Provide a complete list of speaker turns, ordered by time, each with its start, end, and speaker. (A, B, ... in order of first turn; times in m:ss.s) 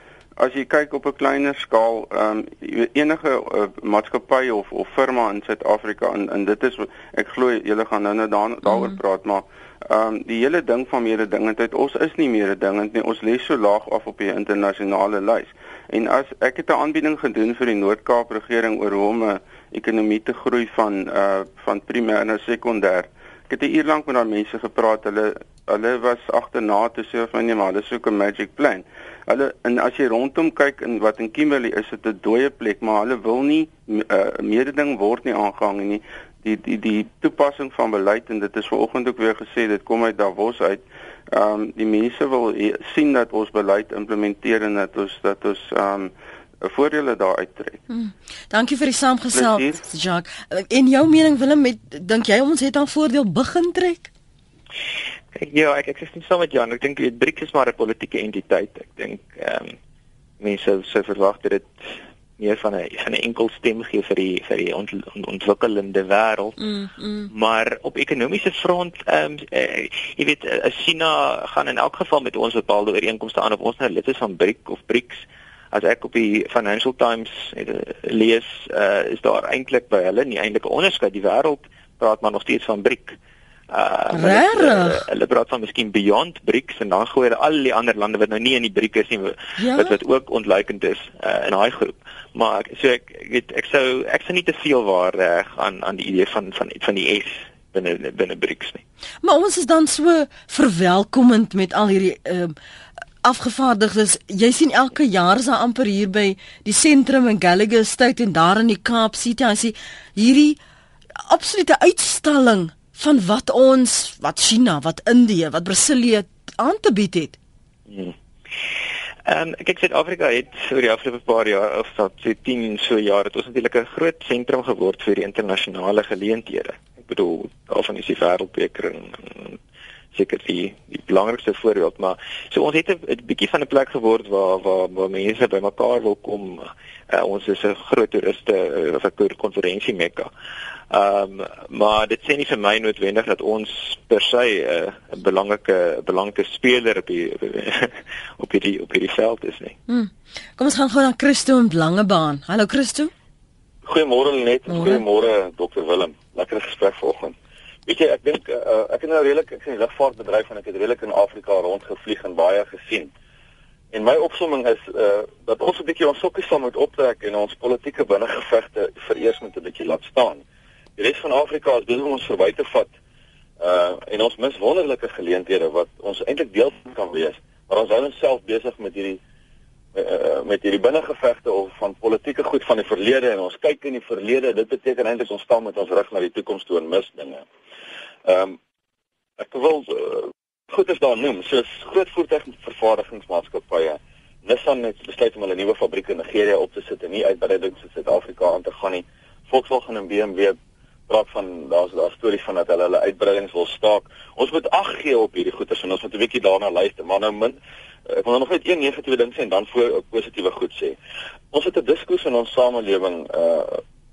0:00.4-0:47.8 A
0:08.7-0:09.0 B
0:47.9-0:54.1 B
0:49.3-0:49.8 A
0:55.4-0:59.8 C
1:00.4-1:06.7 C
1:06.7-1:07.3 B
1:07.3-1:23.2 C
1:23.7-1:38.8 C
1:24.1-1:25.0 B
1:29.6-1:30.0 B
1:39.2-1:42.6 B
1:43.2-1:50.6 B
1:51.2-1:57.4 B
1:57.9-1:58.1 C
1:59.3-2:09.6 C
2:10.1-2:20.3 C
2:20.9-2:29.8 C
2:29.9-2:33.1 B
2:33.8-2:37.4 D
2:34.7-2:35.0 B
2:37.9-2:43.1 D
2:43.9-2:50.4 D
2:51.0-2:52.9 D
2:53.6-2:59.2 D
2:59.9-3:07.4 D
3:08.2-3:08.6 D
3:09.4-3:20.6 D
3:21.1-3:27.6 D
3:28.1-3:31.0 D
3:31.5-3:33.8 D